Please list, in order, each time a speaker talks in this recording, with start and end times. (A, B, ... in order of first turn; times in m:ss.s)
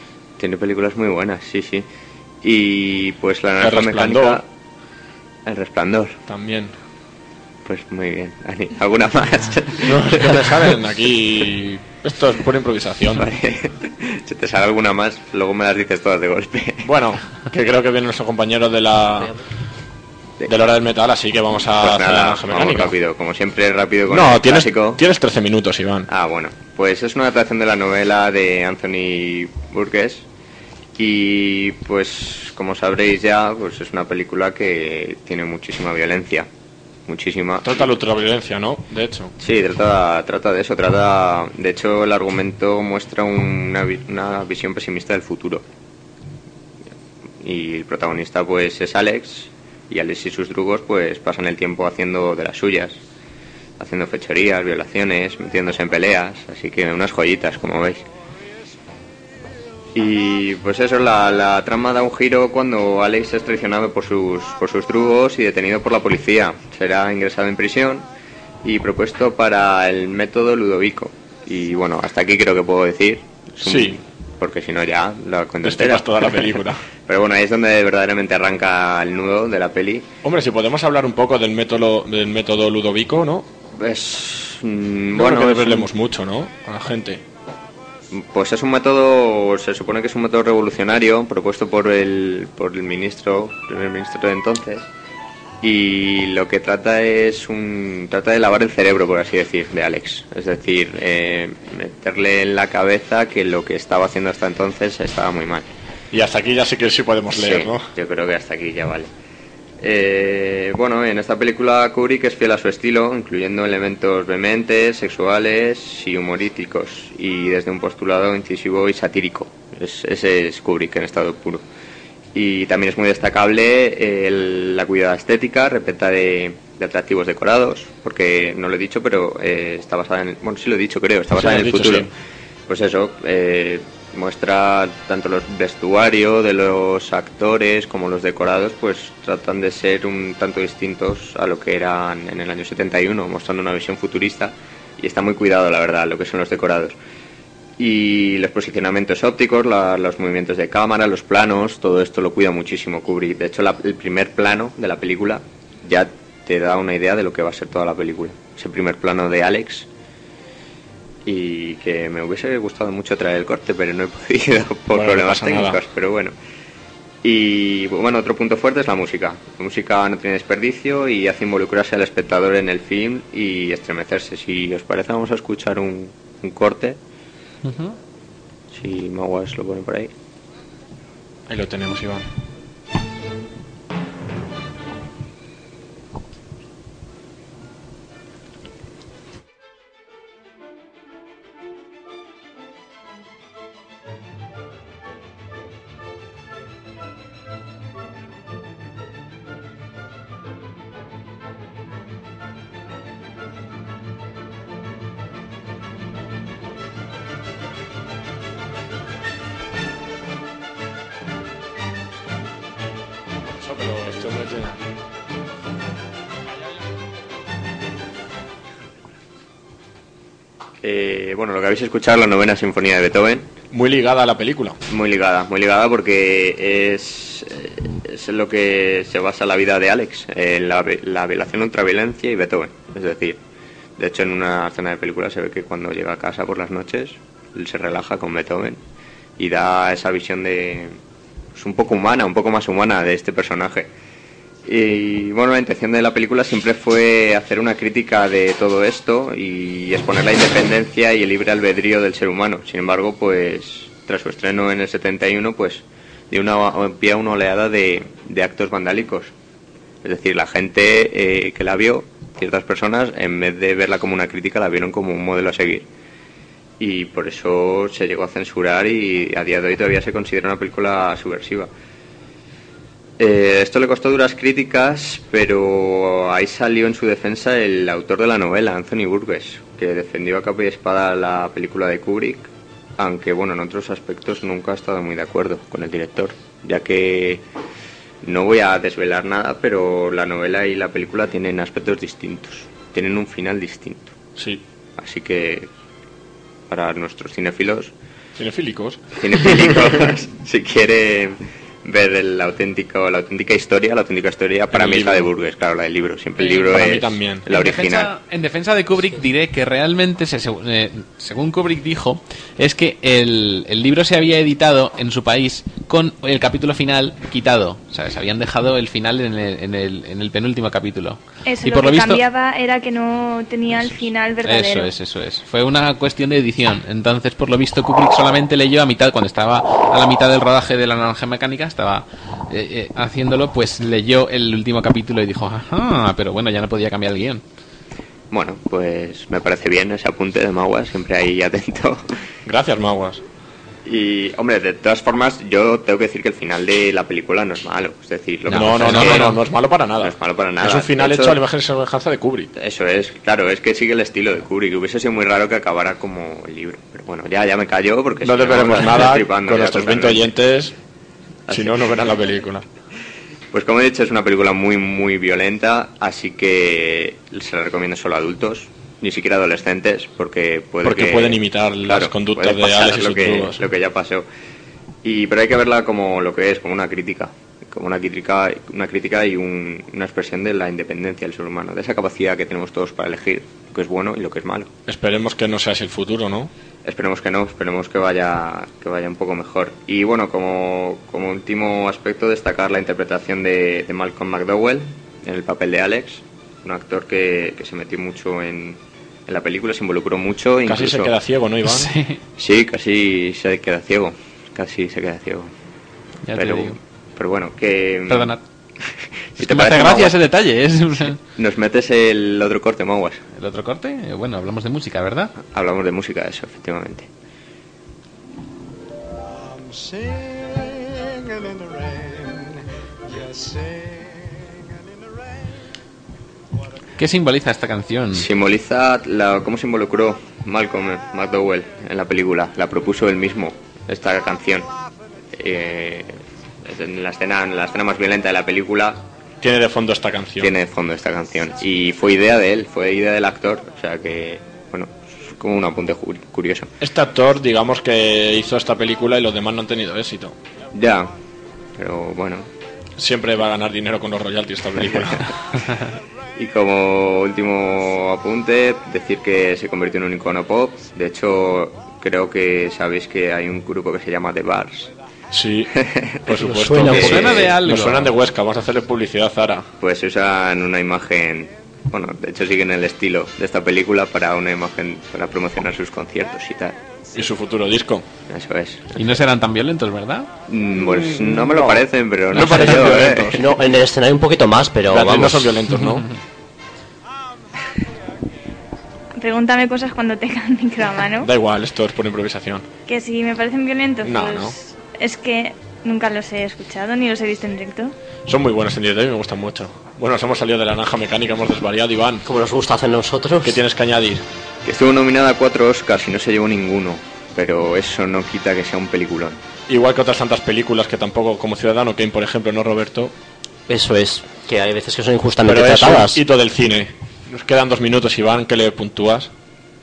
0:00.4-0:01.9 A
0:02.4-0:04.4 A
0:03.6-0:04.4 B
0:05.4-0:06.2 A
0:06.3-0:06.7 B
0:07.6-0:10.7 A
0:09.8-0:13.3 B
0:13.2-0:16.9 A
0:16.8-0:19.3 B
0:20.4-0:23.0 B
0:21.8-0:25.0 A
0:24.1-0:26.1 B
0:26.1-0:30.3 A
0:31.0-0:36.5 A
0:37.1-0:37.9 A
0:37.6-0:39.3 B
0:39.4-0:45.6 A
0:47.4-0:53.0 A
0:53.8-0:58.1 A
1:00.0-1:08.1 A
1:08.6-1:20.1 A
1:13.6-1:14.0 B
1:15.6-1:16.8 B
1:20.2-1:23.5 B
1:23.7-1:25.9 A
1:25.1-1:27.2 B
1:28.1-1:34.9 A
1:35.6-1:45.7 A
1:46.1-1:47.9 B
1:47.3-1:49.1 A
1:49.8-2:01.6 A
2:02.3-2:12.1 A
2:11.4-2:12.1 B
2:12.7-2:27.0 A
2:27.8-2:39.9 A
2:41.3-2:46.4 A
2:44.9-2:45.8 B
2:47.2-2:57.0 A
2:57.6-2:58.0 C
2:58.7-3:00.1 A
3:01.5-3:02.3 B
3:33.6-3:34.8 B
3:40.8-3:43.5 A
3:43.7-3:44.8 B
3:44.9-3:53.4 A
3:54.0-3:58.8 A
3:59.4-4:01.0 A
4:01.6-4:03.9 A
4:04.6-4:19.3 A
4:20.0-4:25.9 A
4:26.8-4:31.7 A
4:33.2-4:47.4 A
4:48.2-4:54.2 A
4:54.4-4:54.6 B
4:55.0-4:55.7 A
4:56.7-4:57.9 A
4:58.4-5:00.0 B
4:59.2-5:08.1 A
5:04.7-5:05.3 B
5:06.5-5:07.5 B
5:07.5-5:22.2 C
5:21.4-5:24.9 D
5:23.7-5:37.4 C
5:38.3-5:42.0 A
5:42.4-5:43.2 B
5:43.8-5:49.3 A
5:48.5-5:52.5 B
5:48.5-5:49.4 C
5:50.0-5:51.4 A
5:52.5-6:00.3 A
5:58.2-6:00.7 B
6:01.5-6:02.3 A
6:01.5-6:02.6 B
6:03.5-6:14.3 A
6:10.8-6:13.6 B
6:15.0-6:24.7 A
6:24.9-6:26.5 B
6:26.8-6:41.1 A
6:40.6-6:41.9 B
6:41.6-6:42.2 C
6:42.4-6:45.5 A
6:46.3-6:46.8 C
6:46.3-6:48.4 A
6:48.1-6:48.4 C
6:49.4-6:50.2 A
6:49.4-6:51.2 C
6:51.4-6:53.2 A
6:53.3-6:55.3 C
6:55.4-6:57.1 A
6:59.5-7:02.3 E
7:03.1-7:04.2 E
7:07.0-7:08.3 C
7:08.1-7:14.7 A
7:15.3-7:19.0 A
7:19.4-7:20.5 B
7:20.4-7:26.7 A
7:26.8-7:30.4 B
7:30.7-7:31.1 A
7:31.8-7:32.5 A
7:33.0-7:35.3 B
7:34.8-7:35.2 A
7:36.4-7:44.9 A
7:45.3-7:45.7 B
7:45.8-7:46.3 A
7:46.3-7:49.7 B
7:46.5-7:47.2 F
7:46.6-7:48.1 C
7:49.8-7:56.8 A
7:57.1-7:58.1 B
7:58.3-7:59.1 A
7:59.0-8:00.3 C
8:00.5-8:03.4 A
8:01.0-8:03.4 B
8:03.3-8:05.6 F
8:04.9-8:06.1 B
8:05.7-8:06.1 C
8:09.2-8:11.3 D
8:11.2-8:12.6 B
8:12.9-8:17.9 D
8:14.0-8:14.6 B
8:18.3-8:22.2 B
8:22.2-8:23.6 F
8:23.4-8:24.2 B
8:24.6-8:29.4 A
8:29.7-8:33.1 B
8:33.7-8:36.2 F
8:35.4-8:39.3 B